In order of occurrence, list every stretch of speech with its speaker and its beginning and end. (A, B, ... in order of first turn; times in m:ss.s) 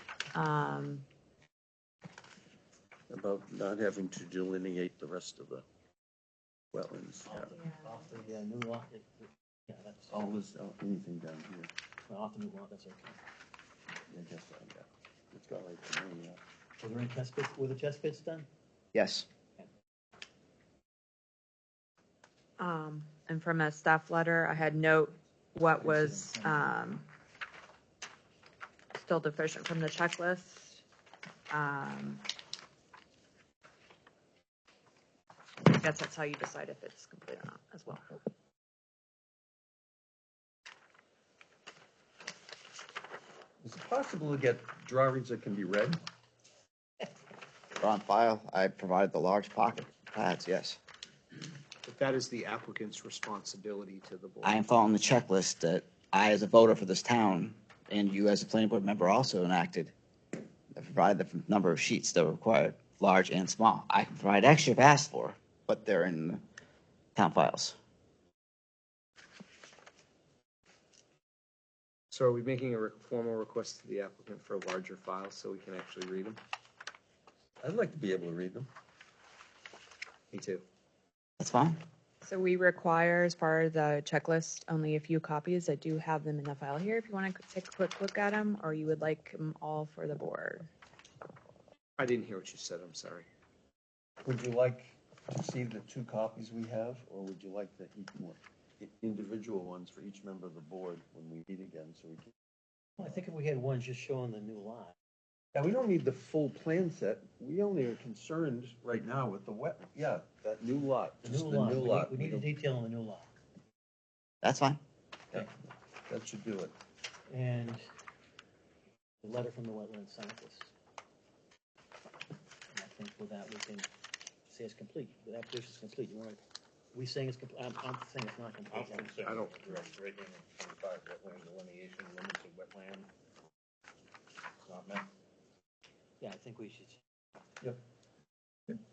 0:00.3-0:01.0 A
0:03.1-0:05.6 B
0:06.7-0:07.6 B
0:07.2-0:10.3 C
0:07.6-0:07.9 A
0:10.1-0:11.7 B
0:12.1-0:13.2 C
0:14.1-0:16.4 B
0:16.8-0:18.5 C
0:18.9-0:19.3 D
0:22.6-0:27.0 A
0:25.8-0:26.4 C
0:28.9-0:30.8 A
0:31.5-0:32.2 A
0:35.6-0:38.0 A
0:43.6-0:46.0 B
0:47.8-0:50.8 D
0:51.9-0:54.5 E
0:54.4-0:59.9 D
1:00.7-1:06.4 D
1:07.2-1:07.8 D
1:12.1-1:16.4 E
1:17.6-1:18.7 B
1:20.3-1:20.6 E
1:21.4-1:21.8 D
1:22.2-1:30.7 A
1:32.0-1:33.2 E
1:34.2-1:42.3 B
1:43.0-1:44.9 C
1:45.5-1:52.5 B
1:51.2-1:53.3 C
1:54.4-1:54.8 D
1:56.1-1:56.7 B
1:57.3-1:57.8 C
1:59.2-2:00.7 C
2:02.7-2:03.9 C
2:04.5-2:06.4 C
2:06.9-2:09.2 C
2:08.7-2:13.1 F
2:09.2-2:09.7 B
2:14.7-2:15.0 F
2:16.2-2:17.0 C